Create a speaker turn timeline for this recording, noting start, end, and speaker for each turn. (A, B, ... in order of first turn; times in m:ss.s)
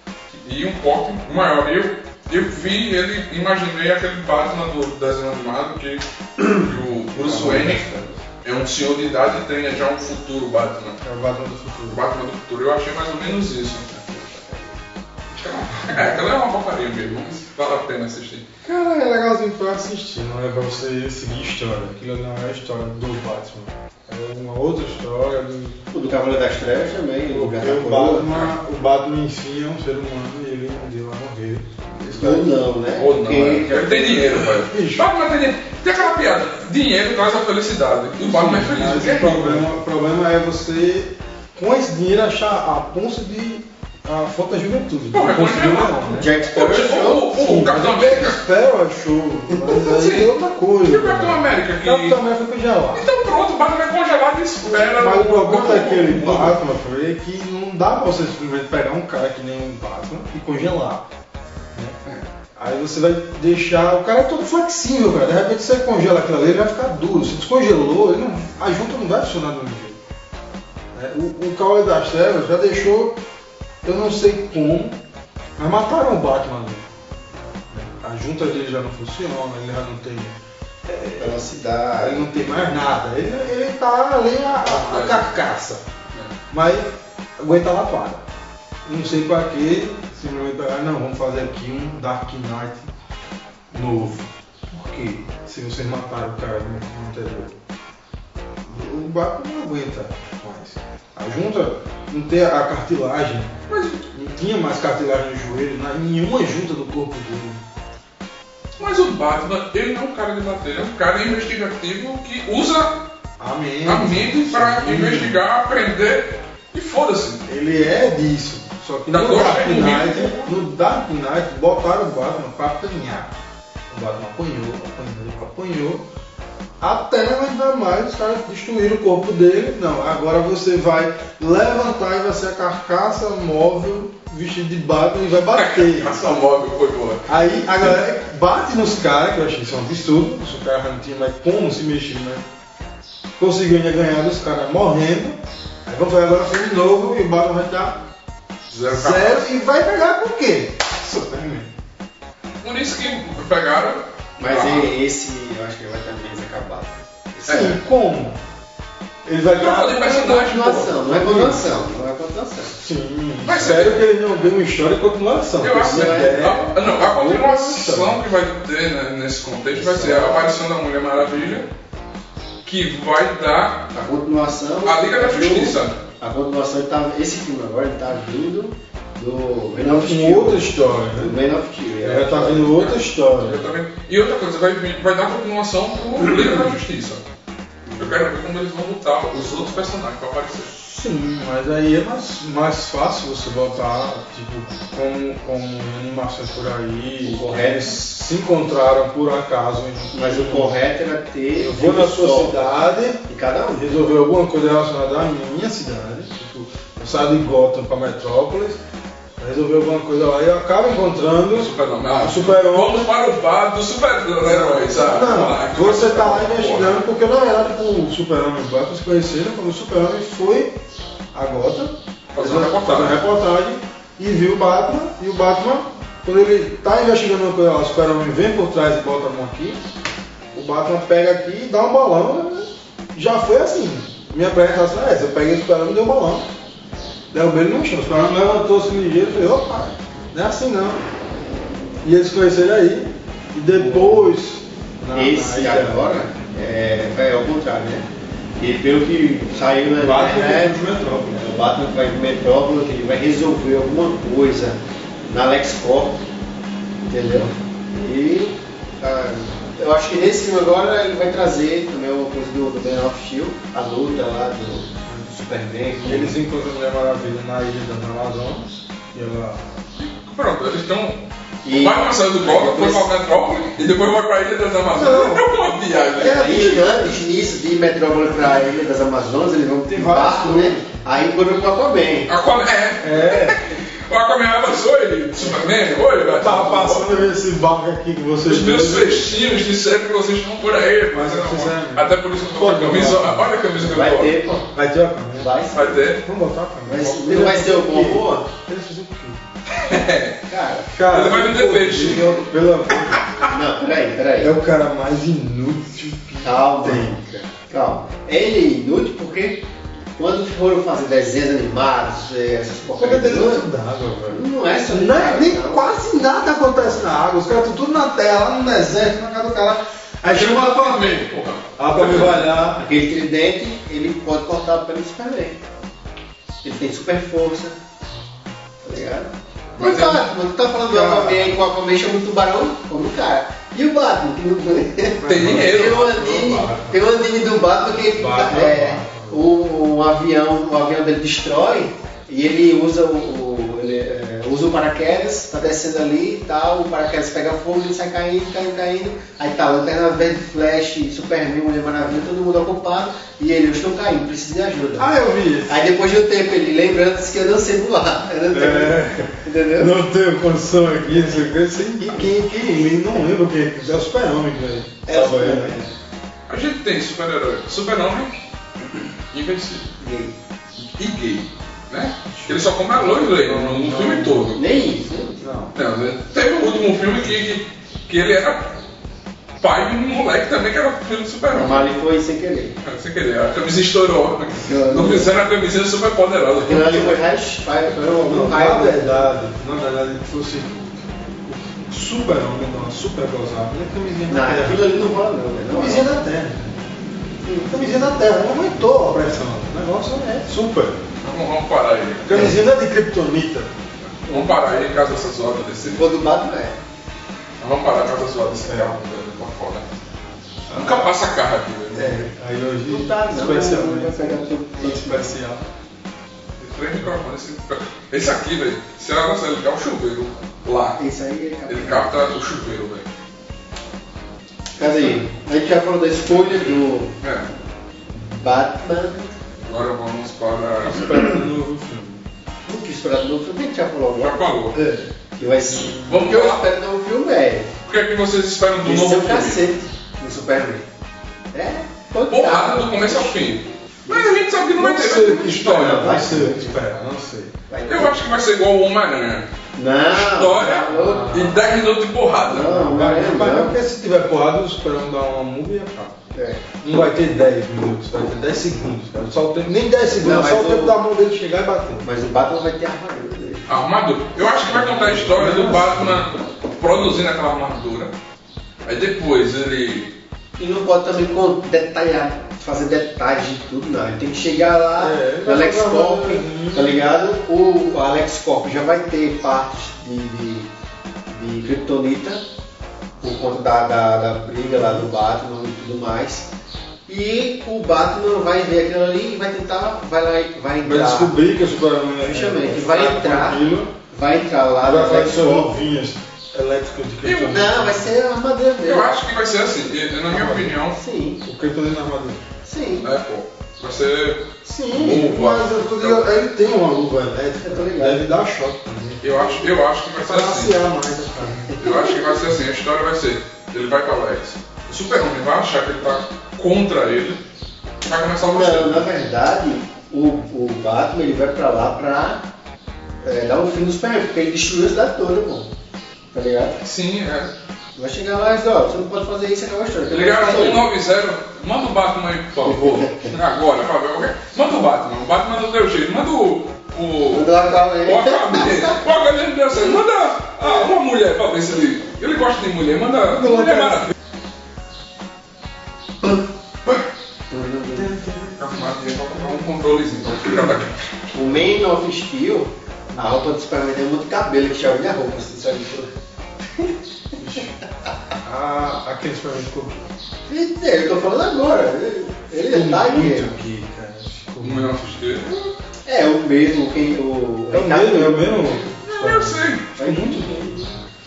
0:00.3-0:07.9 A
0:07.2-0:08.2 B
0:07.2-0:07.8 C
0:08.4-0:11.0 A
0:11.0-0:12.0 C
0:11.9-0:14.1 A
0:14.1-0:14.8 B
0:15.4-0:18.4 A
0:18.6-0:25.8 C
0:25.9-0:28.3 B
0:27.3-0:32.5 C
0:32.1-0:34.4 B
0:33.0-0:39.7 A
0:34.5-0:35.1 C
0:38.2-0:46.3 C
0:45.1-0:48.4 A
0:46.1-0:47.3 B
0:47.3-0:53.1 C
0:49.7-0:50.3 A
0:50.8-0:52.2 A
0:52.9-0:56.6 A
0:54.7-1:01.1 C
1:02.6-1:10.0 C
1:10.9-1:13.2 C
1:13.8-1:15.0 C
1:15.6-1:16.9 C
1:17.7-1:21.4 C
1:21.2-1:22.3 B
1:22.0-1:25.8 C
1:24.6-1:25.2 A
1:26.5-1:28.2 C
1:28.8-1:32.9 C
1:33.7-1:37.6 C
1:38.6-1:43.6 C
1:43.7-1:44.0 A
1:44.1-1:47.6 C
1:48.8-1:53.0 A
1:53.4-1:55.4 C
1:53.8-1:57.4 A
1:57.4-2:03.3 C
1:59.1-2:00.5 A
2:03.9-2:06.0 C
2:06.8-2:16.4 C
2:15.5-2:17.3 A
2:17.3-2:22.4 C
2:23.4-2:28.0 C
2:28.7-2:29.4 A
2:28.9-2:31.7 C
2:32.6-2:34.9 A
2:34.4-2:37.7 B
2:37.4-2:38.4 C
2:37.5-2:37.8 A
2:39.2-2:40.3 C
2:39.5-2:41.1 A
2:40.0-2:42.8 B
2:41.1-2:41.6 C
2:42.8-2:48.2 C
2:43.4-2:44.1 A
2:45.6-2:51.7 A
2:45.7-2:46.8 B
2:49.7-2:50.5 B
2:52.6-2:53.9 A
2:53.9-3:02.8 B
2:54.8-2:56.0 A
2:59.8-3:01.3 C
3:02.0-3:03.6 C
3:02.7-3:07.2 A
3:07.9-3:08.2 B
3:08.0-3:10.7 A
3:10.8-3:20.7 C
3:17.2-3:18.0 B
3:20.1-3:22.6 B
3:21.6-3:23.2 C
3:23.3-3:24.0 B
3:23.7-3:28.8 C
3:29.4-3:33.1 C
3:31.5-3:37.0 A
3:34.4-3:40.8 C
3:41.3-3:49.8 C
3:42.3-3:43.2 A
3:50.5-3:56.5 C
3:57.3-4:01.0 C
4:02.0-4:06.0 C
4:03.7-4:04.3 B
4:05.1-4:08.1 B
4:08.6-4:10.8 B
4:10.0-4:11.5 C
4:11.3-4:16.2 B
4:17.0-4:26.4 B
4:26.0-4:29.6 C
4:30.0-4:36.6 A
4:31.6-4:33.1 B
4:34.9-4:35.5 C
4:36.2-4:42.3 B
4:36.2-4:37.1 C
4:39.9-4:41.0 C
4:42.3-4:47.2 A
4:43.0-4:43.6 C
4:46.3-4:49.3 C
4:48.4-4:54.4 A
4:51.1-4:53.5 C
4:53.8-4:54.7 B
4:54.7-4:55.5 C
4:55.4-4:56.1 B
4:55.7-4:56.2 A
4:56.2-4:59.4 C
4:56.8-4:58.4 B
4:59.7-5:00.4 A
5:00.5-5:00.9 B
5:00.9-5:03.3 C
5:01.1-5:02.4 A
5:03.1-5:03.5 A
5:03.5-5:04.5 B
5:04.4-5:07.2 C
5:06.4-5:09.6 B
5:10.2-5:13.6 B
5:13.0-5:22.8 C
5:14.3-5:16.0 B
5:20.2-5:22.4 A
5:22.8-5:25.6 B
5:26.6-5:27.8 B
5:28.8-5:55.1 B
5:29.8-5:30.3 A
5:30.9-5:31.6 C
5:35.2-5:37.0 C
5:35.3-5:36.6 A
5:38.1-5:39.5 C
5:55.0-5:55.9 C
5:55.7-6:00.0 B
5:58.5-6:05.8 C
6:05.0-6:05.9 B
6:06.5-6:08.3 A
6:08.9-6:09.9 A
6:10.0-6:10.4 B
6:10.9-6:14.6 A
6:12.3-6:14.5 C
6:14.5-6:15.4 B
6:15.4-6:15.7 C
6:15.7-6:18.7 A
6:19.6-6:21.9 A
6:21.5-6:22.8 B
6:22.8-6:27.2 A
6:24.6-6:25.3 B
6:26.6-6:29.3 B
6:28.2-6:34.8 C
6:34.3-6:36.1 B
6:35.7-6:36.8 C
6:37.4-6:37.8 B
6:37.7-6:41.0 C
6:41.2-6:42.5 A
6:42.2-6:43.8 C
6:44.2-6:46.1 A
6:44.3-6:44.5 B
6:45.8-6:46.8 B
6:47.6-6:49.8 A
6:48.6-6:49.0 C
6:50.7-6:51.1 C
6:50.7-6:52.2 A
6:51.9-6:55.6 C
6:52.8-6:55.3 B
6:56.6-7:01.0 A
7:01.0-7:02.3 B
7:01.7-7:03.0 A
7:04.8-7:07.1 B
7:07.2-7:07.5 A
7:08.4-7:09.4 B
7:09.6-7:11.2 A
7:10.8-7:12.2 C
7:12.6-7:14.5 B
7:14.2-7:14.8 A
7:14.7-7:15.1 C
7:15.4-7:17.7 B
7:15.9-7:16.7 A
7:17.8-7:19.7 A
7:18.8-7:20.8 B
7:21.5-7:24.3 B
7:22.3-7:26.2 A
7:24.7-7:27.6 C
7:25.7-7:26.8 B
7:27.7-7:28.2 B
7:27.9-7:29.5 A
7:29.8-7:31.5 B
7:30.1-7:32.9 A
7:30.8-7:31.6 C
7:32.5-7:33.8 B
7:32.7-7:36.2 C
7:36.3-7:36.6 B
7:36.8-7:42.0 C
7:40.2-7:41.0 B
7:42.0-7:43.7 B
7:43.7-7:48.1 A
7:44.7-7:46.2 C
7:48.8-7:50.1 A
7:50.6-8:00.7 B
7:55.0-7:57.0 C
8:01.3-8:02.4 B
8:03.2-8:06.5 B
8:04.8-8:05.1 C
8:07.1-8:11.3 B
8:10.8-8:13.9 C
8:12.2-8:15.7 B
8:14.8-8:18.1 C
8:17.2-8:17.6 A
8:17.4-8:19.1 B
8:18.8-8:21.0 A
8:20.3-8:20.8 C
8:20.9-8:21.4 B
8:21.4-8:22.4 C
8:22.6-8:23.1 B
8:23.0-8:26.2 A
8:24.6-8:29.2 C
8:27.6-8:28.2 B
8:29.2-8:30.8 A
8:30.2-8:31.8 C
8:31.7-8:32.2 B
8:31.8-8:37.4 A
8:38.0-8:39.0 A
8:38.4-8:42.4 B
8:43.2-8:45.7 B
8:46.3-8:46.8 B
8:46.8-8:47.5 A
8:48.0-8:50.9 B
8:50.1-9:04.1 A
8:57.3-8:59.0 B
9:07.5-9:08.2 B
9:07.9-9:09.5 C
9:08.5-9:11.0 A
9:11.3-9:16.1 B
9:17.4-9:17.7 C
9:18.4-9:20.1 C
9:20.5-9:23.5 B
9:22.6-9:25.4 C
9:24.6-9:25.5 A
9:26.0-9:28.9 B
9:27.7-9:30.4 C
9:28.9-9:30.7 A
9:30.0-9:31.0 B